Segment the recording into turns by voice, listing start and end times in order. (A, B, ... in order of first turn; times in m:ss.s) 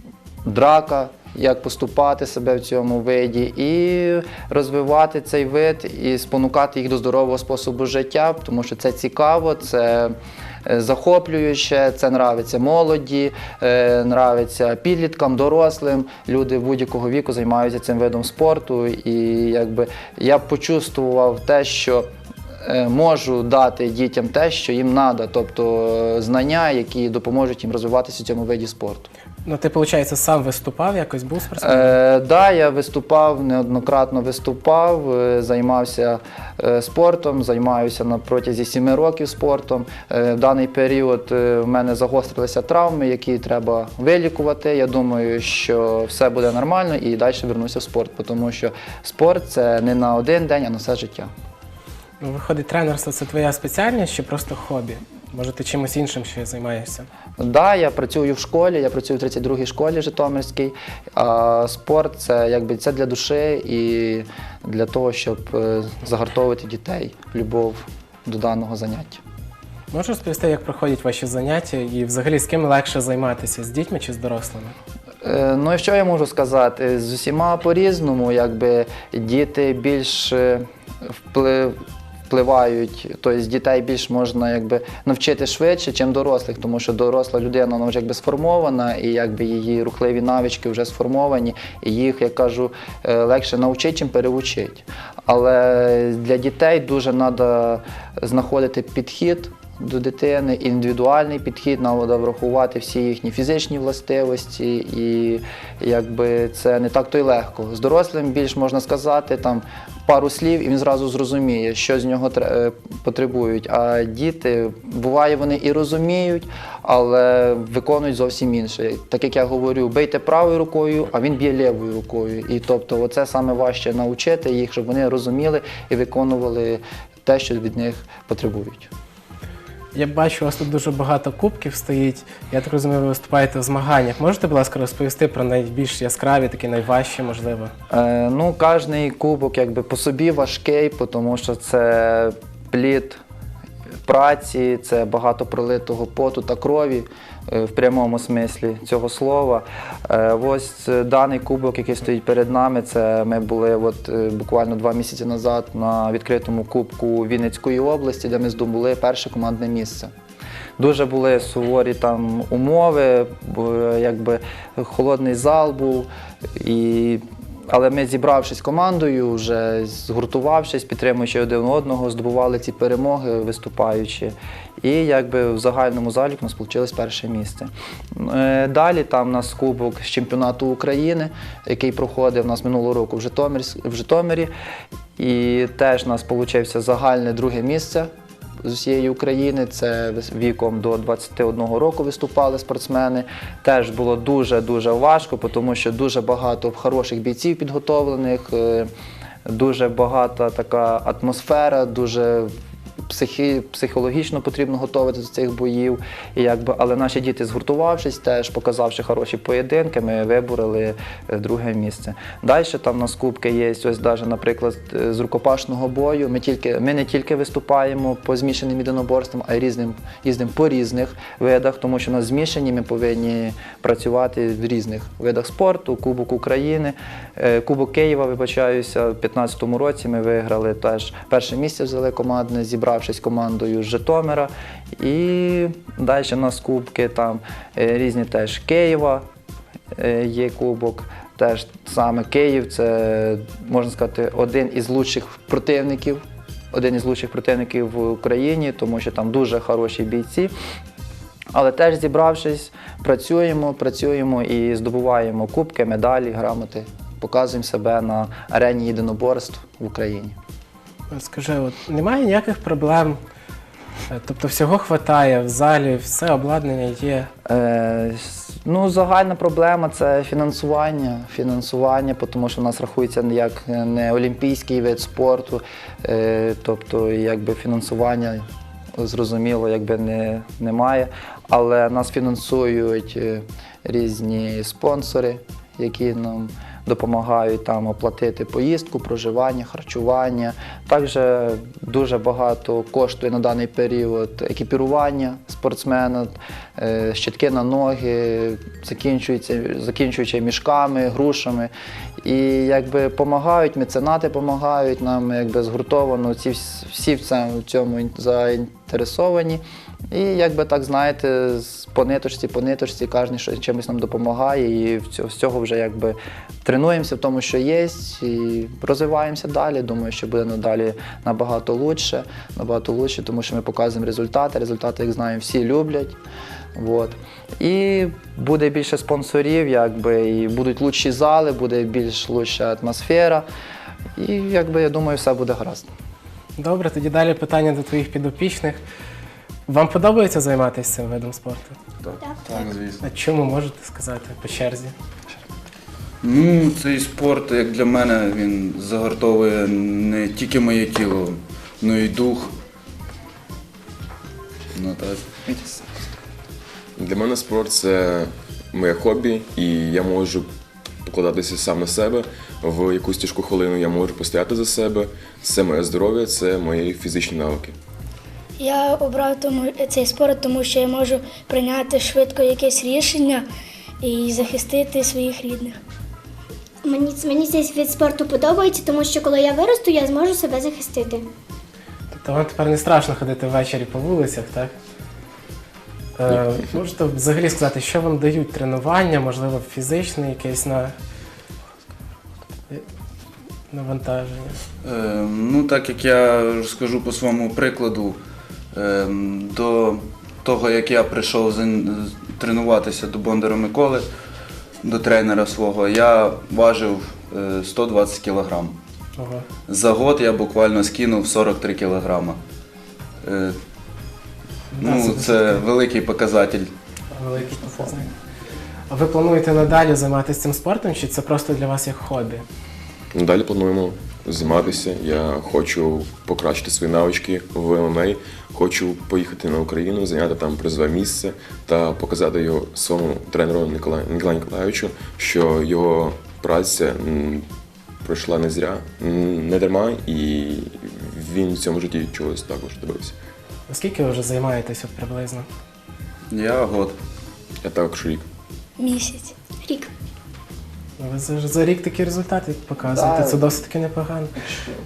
0:00.4-0:22.0 A
0:22.6-0:29.1 A
0:29.4-0:32.0 B
0:31.6-0:51.3 A
0:52.2-0:57.1 B
0:57.4-1:09.2 A
1:09.9-1:14.7 B
1:15.2-1:20.6 A
1:21.3-1:21.8 A
1:22.3-2:08.9 A
2:09.9-2:17.7 B
2:17.9-2:23.2 A
2:24.0-2:40.1 A
2:40.8-3:04.5 A
3:05.2-3:08.1 A
3:08.6-3:18.9 A
3:19.4-3:22.5 A
3:23.1-3:59.2 A
3:59.9-4:10.5 A
4:11.5-4:20.4 A
4:21.1-4:23.2 B
4:24.1-4:27.3 B
4:27.5-4:38.4 A
4:39.0-5:01.7 A
5:02.2-5:26.2 A
5:26.8-5:33.4 A
5:34.2-5:35.9 A
5:36.6-5:38.8 B
5:39.7-5:41.8 B
5:42.0-5:43.0 C
5:43.0-5:44.9 B
5:46.2-5:52.5 C
5:54.7-5:55.2 C
5:55.4-5:55.9 A
5:57.0-6:00.5 D
6:01.0-6:07.7 D
6:08.6-6:13.4 E
6:14.0-6:15.8 E
6:16.9-6:21.2 F
6:22.1-6:24.7 B
6:26.2-6:30.9 B
6:33.7-6:34.6 B
6:34.8-6:38.2 C
6:38.7-6:44.0 C
6:44.8-6:48.8 C
6:49.2-6:49.4 B
6:49.7-6:52.4 C
6:53.2-6:53.6 C
6:54.7-6:55.6 B
6:54.8-6:56.7 C
6:57.1-6:58.1 B
6:58.9-7:02.4 B
7:03.1-7:17.4 D
7:18.0-7:23.2 D
7:23.7-7:25.4 B
7:26.3-7:27.0 C
7:27.6-7:28.2 D
7:28.8-7:29.3 E
7:31.0-7:34.3 B
7:32.8-7:33.4 A